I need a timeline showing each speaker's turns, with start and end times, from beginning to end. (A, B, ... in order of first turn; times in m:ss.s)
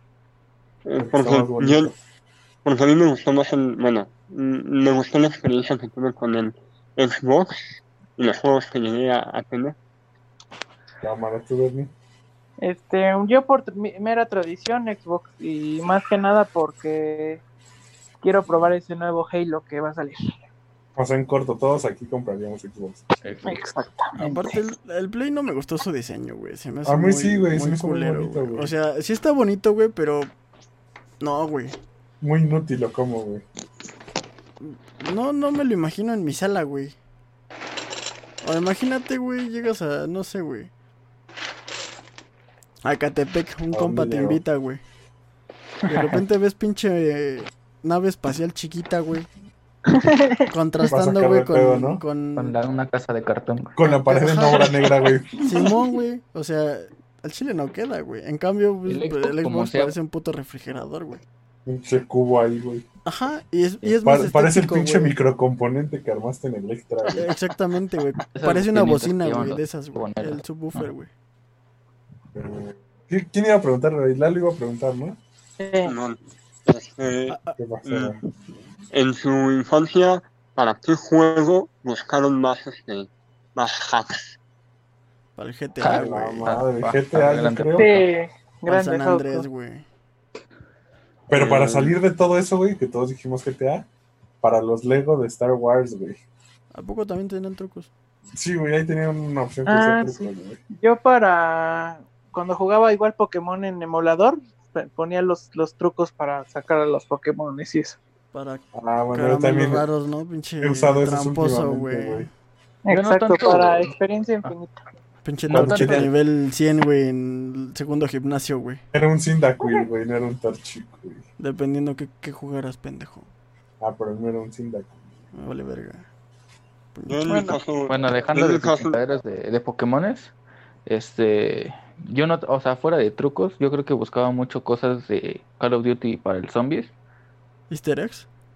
0:00.8-0:01.9 A
0:01.0-0:01.9 B
0:02.6-0:09.7 A
0:11.0-0:11.9 B
0:12.6-0:17.4 C
0:18.2-0:20.4 C
0:21.0-0:23.1 B
0:23.2-0:23.6 D
0:23.4-0:24.6 C
0:24.2-0:30.3 E
0:26.8-0:28.7 B
0:31.2-0:31.8 E
0:32.2-0:33.4 B
0:34.6-0:37.0 E
0:38.4-0:40.7 E
0:42.8-0:44.8 E
0:43.7-0:44.4 B
0:45.8-0:49.3 E
0:45.9-0:46.2 D
0:49.9-0:50.5 C
0:50.5-0:52.6 E
0:50.9-0:52.0 B
0:52.4-0:53.8 D
0:53.8-0:55.4 B
0:53.8-0:54.7 E
0:55.4-1:01.2 E
0:58.8-0:59.9 D
1:01.6-1:02.8 B
1:03.0-1:05.2 E
1:04.0-1:07.3 B
1:07.2-1:11.1 E
1:08.3-1:10.9 D
1:12.3-1:15.2 B
1:15.6-1:15.9 C
1:15.8-1:18.2 A
1:17.3-1:17.6 E
1:17.6-1:18.2 B
1:18.9-1:24.4 A
1:25.4-1:26.6 E
1:25.8-1:28.0 D
1:25.9-1:27.9 B
1:27.8-1:29.5 C
1:28.7-1:29.8 E
1:31.3-1:33.9 B
1:31.3-1:32.0 A
1:34.4-1:36.2 B
1:36.7-1:37.9 E
1:38.4-1:40.6 B
1:39.7-1:48.0 C
1:48.3-1:52.3 E
1:48.7-1:49.8 B
1:50.6-1:52.3 B
1:52.8-1:54.8 C
1:52.9-1:53.9 D
1:55.2-1:58.8 E
1:55.5-1:56.1 D
1:55.5-1:56.1 B
1:58.9-2:01.2 B
1:59.6-1:59.9 C
2:01.4-2:03.3 E
2:03.8-2:05.0 B
2:05.3-2:06.1 E
2:06.9-2:07.6 E
2:07.1-2:09.0 A
2:07.3-2:07.5 C
2:07.9-2:10.3 D
2:10.8-2:16.9 D
2:17.7-2:18.3 E